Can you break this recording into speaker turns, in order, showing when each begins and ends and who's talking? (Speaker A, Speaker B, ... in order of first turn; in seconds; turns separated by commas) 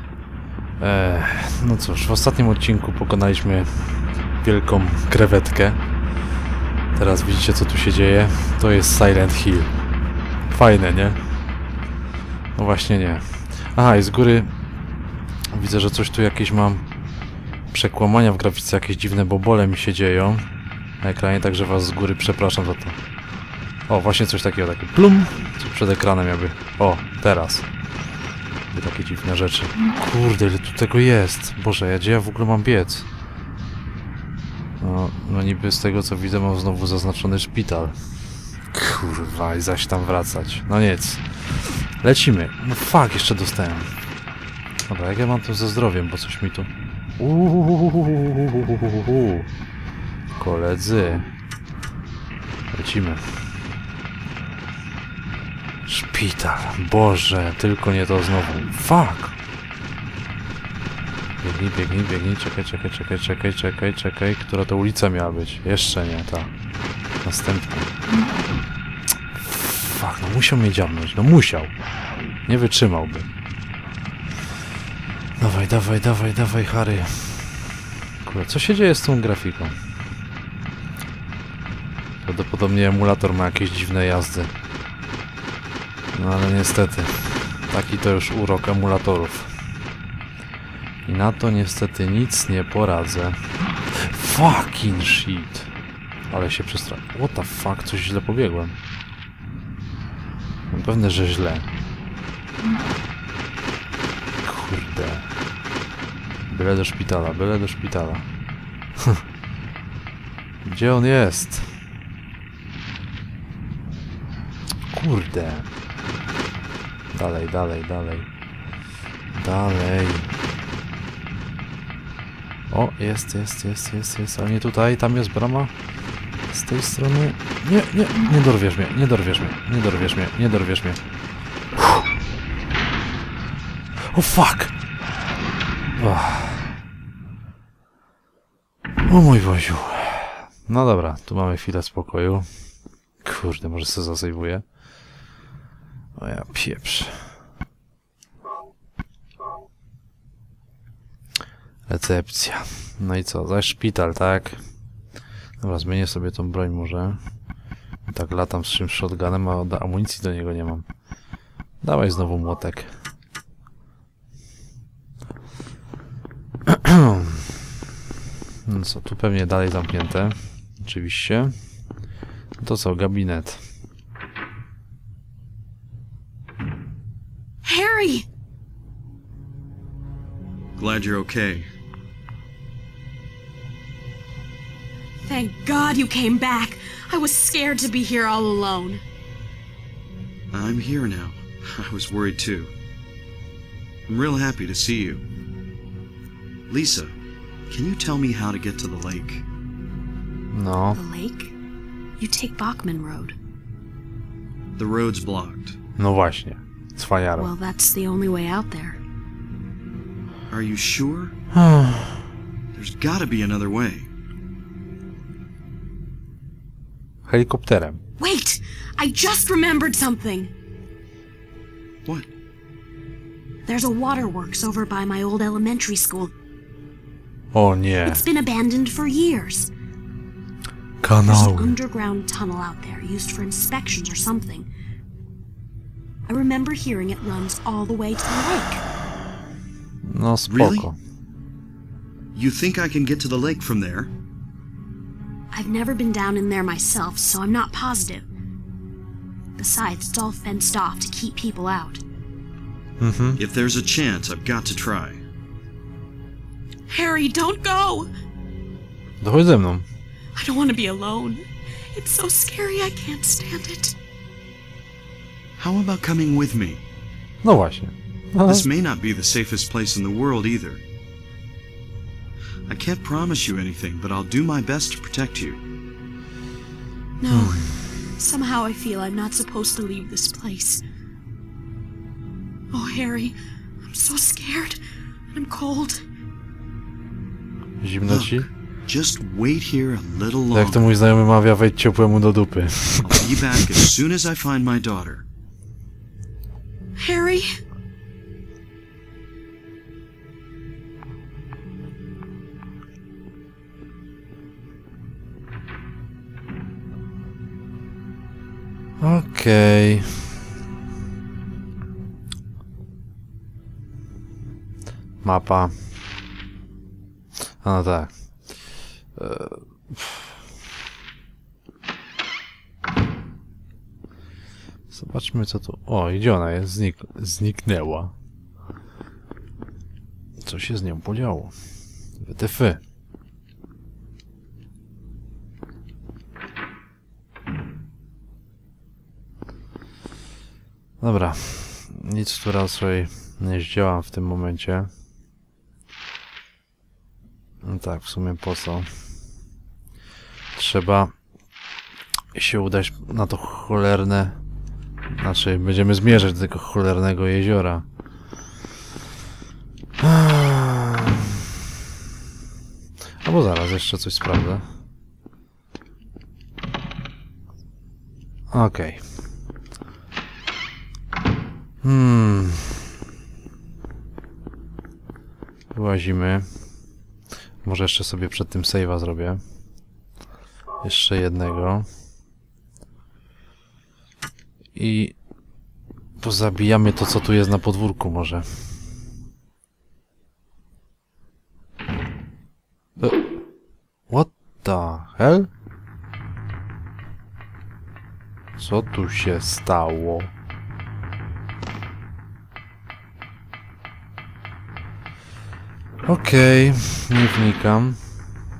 Speaker A: 0.8-3.9, Speaker A: 4.4-5.8, Speaker A: 6.9-9.7, Speaker A: 10.5-11.2, Speaker A: 12.5-14.5, Speaker A: 15.5-16.8, Speaker A: 17.7-20.4, Speaker A: 21.0-23.0, Speaker A: 23.9-27.7, Speaker A: 28.7-33.1, Speaker A: 34.8-38.0, Speaker A: 38.7-43.9, Speaker A: 44.9-49.5, Speaker A: 50.4-51.3, Speaker A: 52.7-53.2, Speaker A: 55.9-59.4, Speaker A: 61.4-66.5, Speaker A: 67.2-67.9, Speaker A: 69.4-71.7, Speaker A: 72.5-73.3, Speaker A: 75.4-79.7, Speaker A: 82.2-84.5, Speaker A: 86.1-89.5, Speaker A: 91.0-93.4, Speaker A: 93.9-95.7, Speaker A: 96.3-98.8, Speaker A: 100.7-101.7, Speaker A: 104.4-105.3, Speaker A: 106.5-108.2, Speaker A: 110.6-111.7, Speaker A: 114.9-115.7, Speaker A: 117.1-118.3, Speaker A: 119.3-120.3, Speaker A: 122.7-125.7, Speaker A: 126.5-131.0, Speaker A: 134.1-134.7, Speaker A: 135.9-136.7, Speaker A: 139.1-142.5, Speaker A: 143.2-144.6, Speaker A: 146.2-147.3, Speaker A: 151.9-154.6, Speaker A: 155.6-157.2, Speaker A: 158.1-160.8, Speaker A: 161.8-162.9, Speaker A: 166.7-167.5, Speaker A: 168.6-171.5, Speaker A: 172.6-173.6, Speaker B: 177.6-178.3, Speaker C: 180.8-181.7, Speaker B: 185.2-189.0, Speaker C: 190.5-192.7, Speaker C: 194.1-195.2, Speaker C: 196.7-197.1, Speaker C: 197.7-199.4, Speaker A: 200.5-201.0, Speaker B: 200.9-201.5, Speaker B: 202.2-203.3, Speaker C: 204.8-205.8, Speaker A: 206.0-207.5, Speaker B: 207.3-209.0, Speaker C: 210.5-211.3, Speaker A: 211.5-212.3, Speaker C: 212.7-214.1, Speaker A: 217.2-218.0, Speaker B: 218.2-220.5, Speaker B: 223.7-226.3, Speaker A: 227.5-228.2, Speaker B: 228.0-229.7, Speaker A: 231.0-231.8, Speaker B: 231.2-234.7, Speaker B: 236.3-238.8, Speaker A: 240.1-240.9, Speaker C: 240.5-240.9, Speaker C: 242.3-244.1, Speaker B: 245.5-248.3, Speaker B: 249.6-252.0, Speaker A: 253.0-253.4, Speaker C: 253.4-255.2, Speaker B: 256.9-258.1, Speaker A: 259.2-259.9, Speaker B: 260.3-263.9, Speaker C: 265.6-266.8, Speaker A: 267.4-268.6, Speaker C: 268.4-270.8, Speaker C: 272.7-275.6, Speaker B: 277.2-280.8, Speaker A: 277.3-277.7, Speaker B: 282.7-284.8, Speaker B: 285.3-286.0, Speaker A: 287.8-288.5, Speaker C: 288.1-290.9, Speaker A: 290.5-293.7, Speaker C: 293.0-295.2, Speaker B: 297.0-297.5, Speaker A: 309.0-310.3, Speaker A: 315.2-315.7, Speaker A: 317.6-318.1, Speaker A: 319.1-320.3, Speaker A: 324.9-328.1, Speaker A: 330.4-331.5, Speaker A: 332.2-332.8, Speaker A: 341.0-344.9, Speaker A: 347.6-348.9, Speaker A: 350.5-351.1, Speaker A: 352.3-354.4, Speaker A: 355.1-357.8, Speaker A: 360.0-361.4, Speaker A: 363.2-364.6, Speaker A: 368.5-369.0, Speaker A: 371.8-372.9, Speaker A: 375.7-376.5, Speaker A: 377.6-379.4, Speaker A: 380.8-381.9, Speaker A: 384.7-385.1, Speaker A: 386.2-388.5, Speaker A: 394.1-395.5, Speaker A: 398.6-400.3, Speaker A: 406.0-408.0